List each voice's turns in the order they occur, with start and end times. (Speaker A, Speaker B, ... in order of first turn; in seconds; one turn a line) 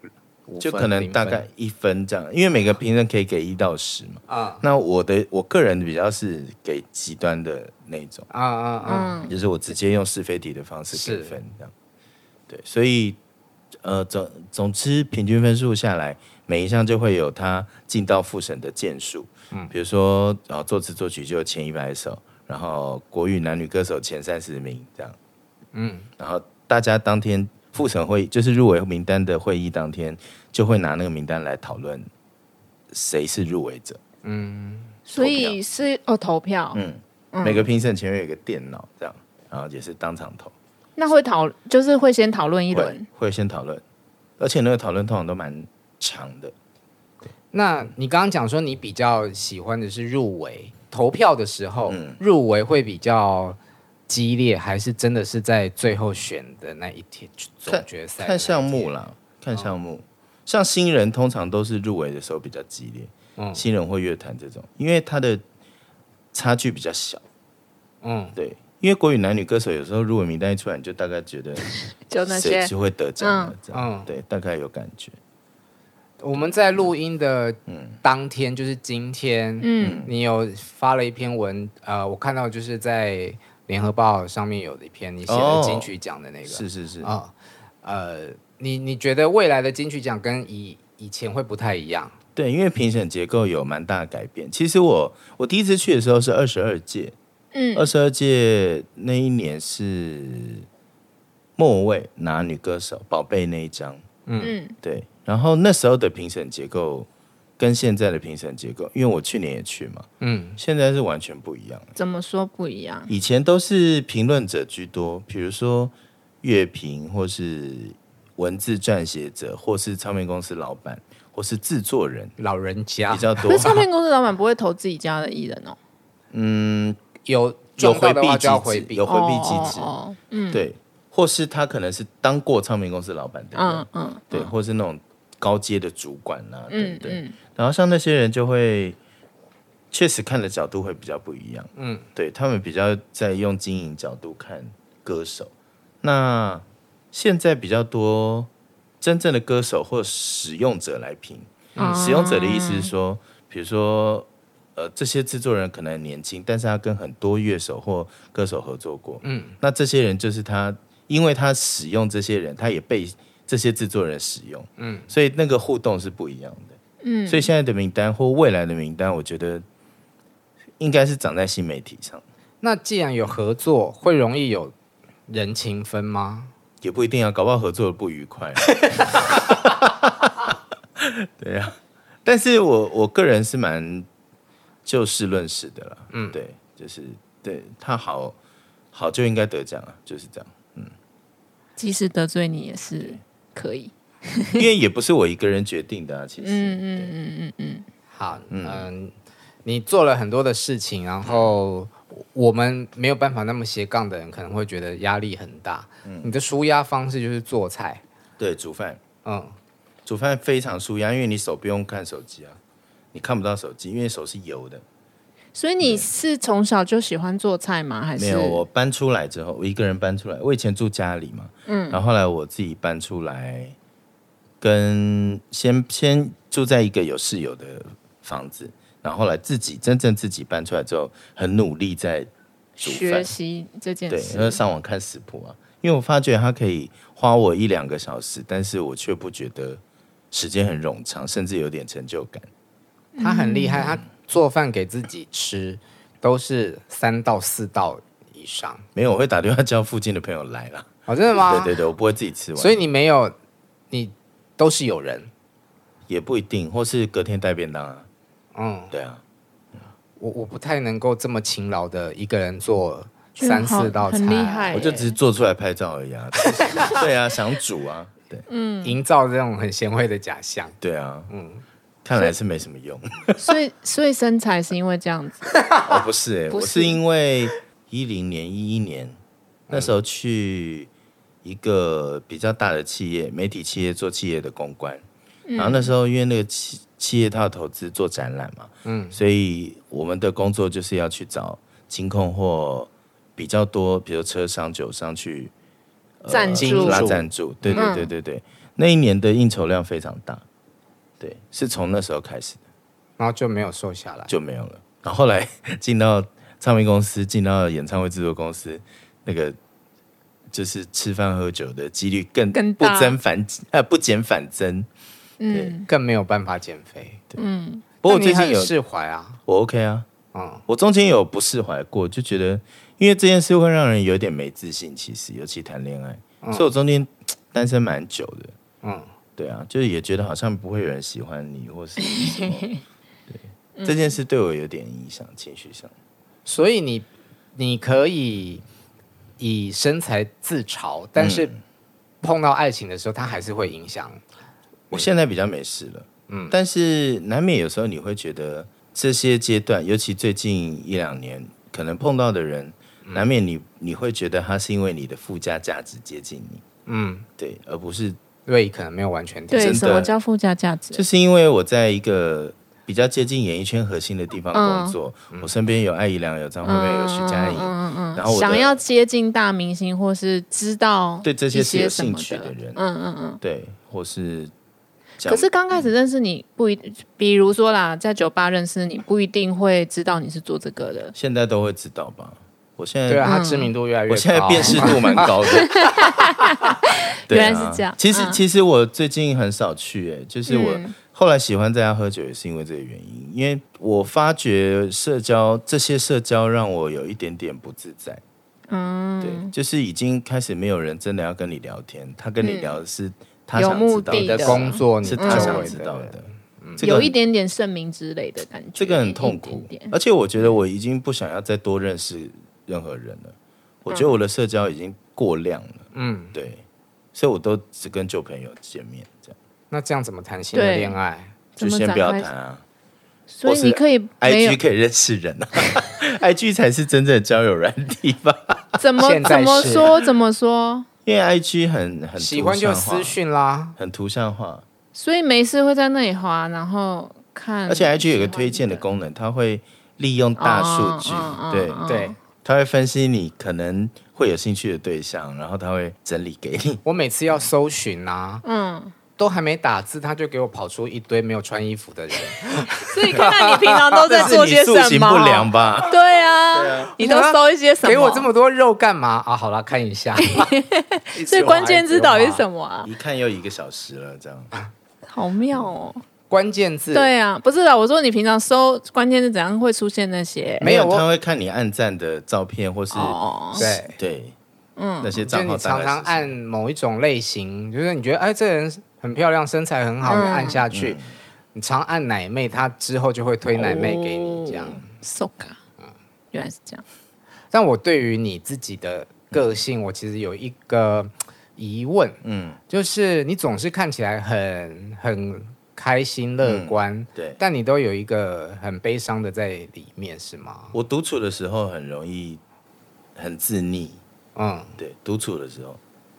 Speaker A: 0.5-1.5
Speaker B: 0.6-8.3
Speaker A: 4.3-4.6
Speaker A: 8.3-9.3
Speaker C: 8.9-9.3
Speaker B: 9.3-11.7
Speaker A: 10.9-11.4
Speaker B: 12.5-13.2
Speaker B: 13.8-25.2
Speaker A: 25.7-26.1
Speaker B: 26.2-32.1
Speaker B: 32.9-34.0
Speaker A: 34.2-35.0
Speaker C: 35.1-36.8
Speaker B: 35.2-35.6
Speaker B: 36.7-40.5
Speaker C: 37.3-37.7
Speaker C: 41.0-43.0
Speaker B: 42.7-43.8
Speaker B: 44.4-46.5
Speaker A: 47.5-58.9
Speaker B: 51.9-52.2
Speaker B: 57.7-65.4
Speaker A: 63.4-63.6
Speaker B: 66.3-67.2
Speaker A: 68.0-68.4
Speaker B: 68.4-71.7
Speaker C: 72.1-73.5
Speaker B: 72.2-75.2
Speaker A: 73.7-74.1
Speaker A: 76.2-92.2
Speaker B: 77.7-78.0
Speaker C: 79.6-80.0
Speaker B: 79.8-80.1
Speaker B: 85.3-85.9
Speaker B: 86.5-87.1
Speaker B: 92.4-97.2
Speaker C: 97.5-97.9
Speaker B: 97.8-100.7
Speaker B: 101.6-104.0
Speaker A: 104.3-104.5
Speaker C: 104.4-104.8
Speaker B: 104.8-107.1
Speaker B: 107.6-111.9
Speaker A: 110.2-110.6
Speaker C: 112.0-113.1
Speaker B: 113.1-122.3
Speaker A: 122.4-123.9
Speaker B: 123.1-123.7
Speaker C: 123.5-125.8
Speaker B: 126.3-127.0
Speaker A: 127.3-129.1
Speaker B: 127.8-129.9
Speaker C: 129.1-130.6
Speaker B: 130.5-139.0
Speaker C: 133.6-134.5
Speaker C: 136.7-137.4
Speaker B: 139.9-148.5
Speaker A: 141.8-142.1
Speaker B: 149.0-169.6
Speaker A: 151.8-152.2
Speaker C: 151.8-152.9
Speaker A: 159.2-159.6
Speaker A: 164.8-165.1
Speaker C: 167.0-167.5
Speaker B: 170.8-172.2
Speaker A: 172.6-174.7
Speaker A: 175.3-176.5
Speaker B: 176.8-184.1
Speaker B: 184.9-188.4
Speaker A: 186.1-186.4
Speaker B: 188.9-190.9
Speaker C: 191.8-194.7
Speaker B: 194.6-197.1
Speaker C: 196.4-197.8
Speaker A: 198.1-199.1
Speaker B: 198.5-198.9
Speaker A: 199.7-208.0
Speaker B: 201.2-201.5
Speaker B: 206.1-206.3
Speaker B: 208.4-209.0
Speaker A: 209.2-209.6
Speaker B: 210.1-212.6
Speaker B: 213.1-214.8
Speaker C: 215.6-218.6
Speaker B: 215.8-216.1
Speaker B: 218.2-223.8
Speaker C: 221.7-222.0
Speaker B: 224.6-232.3
Speaker C: 232.8-234.6
Speaker B: 232.8-233.3
Speaker B: 234.1-239.8
Speaker B: 240.3-242.5
Speaker C: 243.2-244.0
Speaker A: 243.2-248.8
Speaker B: 248.9-252.8
Speaker A: 251.1-251.8
Speaker A: 252.6-253.3
Speaker A: 253.9-255.3
Speaker B: 256.1-258.1
Speaker A: 258.6-258.9
Speaker B: 258.9-259.2
Speaker A: 260.2-264.9
Speaker C: 263.4-265.2
Speaker B: 264.7-268.5
Speaker C: 268.5-269.0
Speaker A: 268.8-270.8
Speaker B: 270.8-271.3
Speaker A: 271.3-271.6
Speaker B: 272.0-273.5
Speaker C: 273.4-275.5
Speaker B: 275.8-279.2
Speaker C: 276.5-277.0
Speaker A: 279.7-279.9
Speaker B: 279.7-280.9
Speaker B: 281.4-285.0
Speaker C: 285.5-285.9
Speaker B: 285.6-295.5
Speaker A: 288.9-289.2
Speaker B: 296.2-300.4
Speaker C: 296.3-297.1
Speaker A: 296.6-298.0
Speaker C: 297.8-298.1
Speaker B: 301.2-302.6
Speaker A: 303.2-304.3
Speaker B: 304.3-309.6
Speaker B: 310.5-314.9
Speaker C: 312.5-313.2
Speaker C: 315.4-315.9
Speaker A: 315.9-317.2
Speaker C: 317.4-317.9
Speaker B: 318.0-318.7
Speaker A: 318.0-319.4
Speaker B: 319.5-320.1
Speaker A: 320.3-320.6
Speaker B: 320.7-328.6
Speaker A: 328.8-329.1
Speaker B: 329.4-332.8
Speaker C: 332.1-332.8
Speaker B: 333.3-335.9
Speaker C: 333.8-334.1
Speaker A: 336.5-338.6
Speaker A: 339.4-341.5
Speaker B: 341.2-341.6
Speaker A: 342.2-344.2
Speaker B: 344.9-356.6
Speaker A: 346.3-346.5
Speaker A: 356.9-357.3
Speaker B: 357.4-358.2
Speaker A: 358.5-360.1
Speaker C: 359.5-361.1
Speaker B: 359.5-360.1
Speaker B: 360.9-368.8
Speaker C: 364.5-365.0
Speaker C: 366.6-373.4
Speaker B: 371.2-372.8
Speaker B: 373.4-374.5
Speaker B: 375.2-375.9
Speaker C: 375.3-381.1
Speaker B: 381.1-383.4
Speaker A: 383.1-385.3
Speaker C: 383.2-383.7
Speaker B: 384.1-385.9
Speaker C: 384.6-388.4
Speaker A: 385.9-386.4
Speaker B: 387.3-398.2
Speaker C: 390.5-390.9
Speaker C: 398.7-399.5
Speaker B: 399.2-407.1
Speaker C: 402.4-402.8
Speaker C: 403.6-405.8
Speaker A: 404.1-406.9
Speaker C: 406.8-409.9
Speaker B: 408.8-419.4
Speaker C: 413.9-414.1
Speaker A: 415.9-416.3
Speaker A: 419.7-421.4
Speaker C: 420.5-421.0
Speaker C: 421.6-422.3
Speaker B: 421.6-422.6
Speaker C: 423.3-424.6
Speaker B: 423.4-428.8
Speaker C: 428.8-430.9
Speaker A: 429.0-429.9
Speaker B: 431.1-433.2
Speaker A: 432.2-433.8
Speaker B: 433.8-434.6
Speaker C: 434.9-438.8
Speaker B: 437.7-441.8
Speaker C: 440.4-442.2
Speaker A: 441.9-442.2
Speaker B: 442.4-446.8
Speaker A: 446.8-448.4
Speaker C: 448.4-448.9
Speaker A: 449.2-454.4
Speaker C: 452.9-458.3
Speaker B: 454.1-456.0
Speaker B: 456.5-456.9
Speaker A: 457.0-460.5
Speaker C: 460.2-462.9
Speaker A: 461.1-462.4
Speaker B: 462.8-464.5
Speaker C: 465.1-466.0
Speaker A: 466.3-467.1
Speaker C: 466.9-470.7
Speaker A: 470.6-471.1
Speaker B: 470.6-474.4
Speaker C: 472.9-473.7
Speaker A: 473.6-473.9
Speaker C: 474.8-475.2
Speaker B: 475.0-476.4
Speaker A: 475.2-481.0
Speaker C: 480.1-480.6
Speaker B: 480.7-481.1
Speaker A: 481.5-484.9
Speaker C: 483.6-485.6
Speaker C: 486.3-486.8
Speaker A: 487.5-500.7
Speaker B: 492.2-492.6
Speaker B: 496.4-497.4
Speaker B: 500.7-502.4
Speaker B: 503.2-504.0
Speaker A: 504.4-504.8
Speaker B: 504.8-505.8